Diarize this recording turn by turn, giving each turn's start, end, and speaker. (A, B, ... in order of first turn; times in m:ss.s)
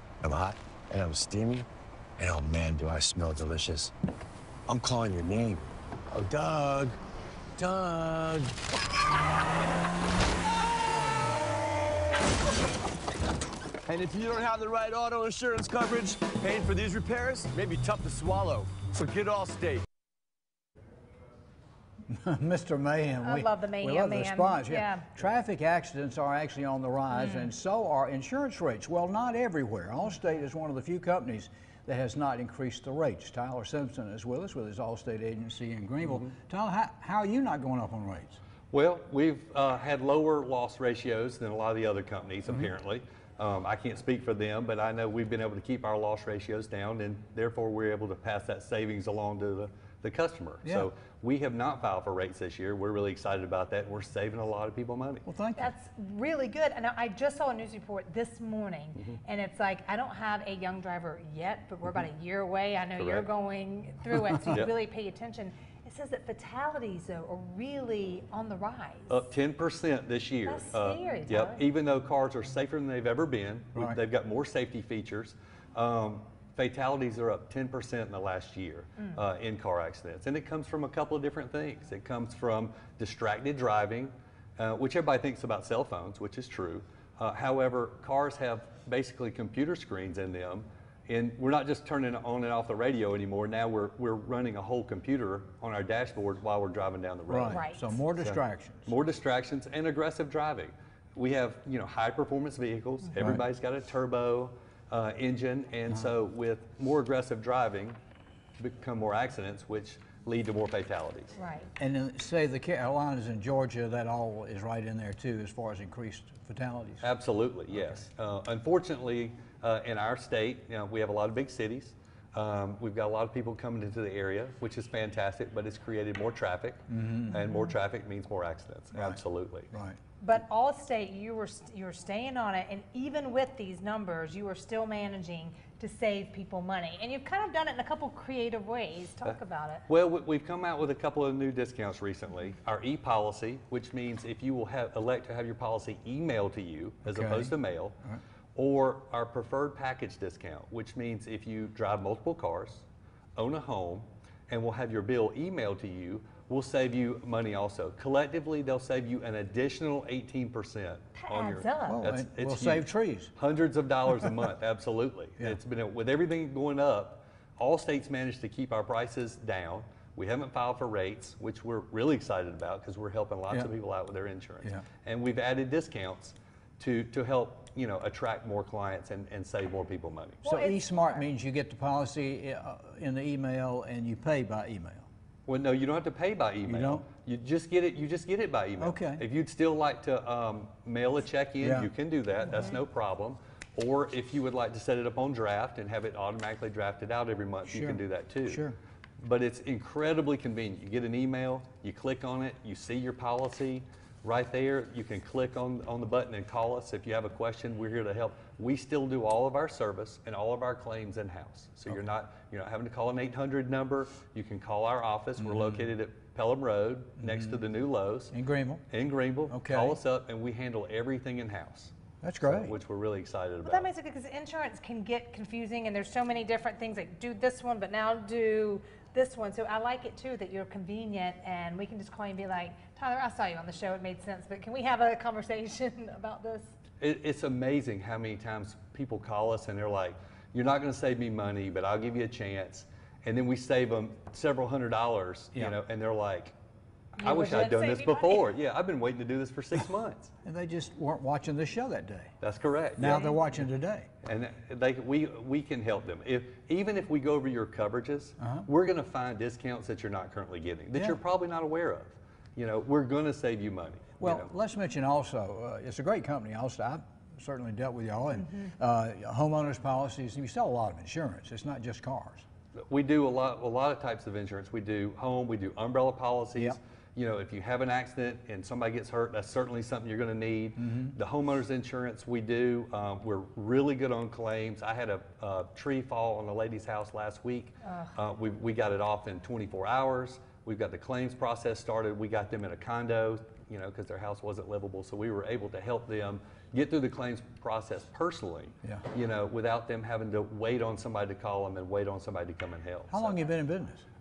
0:00.2-0:01.7 A
0:02.2-0:03.9 A
0:04.7-0:07.0 A
0:07.6-0:08.6 A
0:13.8-0:19.8 A
0:22.1-0:38.4 B
0:23.2-0:25.1 C
0:27.1-0:27.5 C
0:36.0-0:36.3 D
0:38.7-0:55.2 D
0:50.6-0:50.9 B
0:55.2-0:55.7 B
0:55.6-1:09.2 C
1:03.0-1:03.3 D
1:04.3-1:04.6 B
1:09.1-1:48.0 D
1:10.4-1:11.6 C
1:13.7-1:14.0 B
1:37.3-1:38.9 B
1:37.5-1:37.9 C
1:48.6-1:51.3 D
1:51.3-1:51.7 C
1:51.8-1:57.1 B
1:57.0-2:09.7 D
2:06.9-2:07.5 B
2:08.9-2:09.2 B
2:09.7-2:10.0 B
2:10.2-2:19.8 C
2:19.2-2:28.0 D
2:27.0-2:28.2 B
2:28.6-3:00.4 D
2:41.1-2:42.0 C
2:41.9-2:43.3 B
3:00.4-3:01.2 C
3:00.4-3:05.0 B
3:05.4-3:18.6 D
3:06.6-3:07.0 B
3:08.8-3:09.2 B
3:11.6-3:11.9 B
3:17.7-3:18.8 B
3:19.2-3:38.3 D
3:35.4-3:35.8 B
3:37.2-3:37.6 B
3:38.3-3:38.8 B
3:38.9-3:43.9 D
3:39.5-3:40.0 B
3:42.2-3:42.7 B
3:43.6-3:56.7 C
3:57.0-4:06.5 D
4:07.2-4:08.5 C
4:07.2-4:10.3 D
4:10.4-4:12.3 B
4:12.4-4:13.6 D
4:13.0-4:14.1 B
4:13.0-4:13.4 C
4:14.2-4:24.5 D
4:18.4-4:18.7 B
4:24.2-4:32.4 B
4:28.4-4:28.7 C
4:32.8-5:03.5 D
4:40.8-4:41.1 B
4:47.8-4:48.1 C
5:03.1-5:04.0 B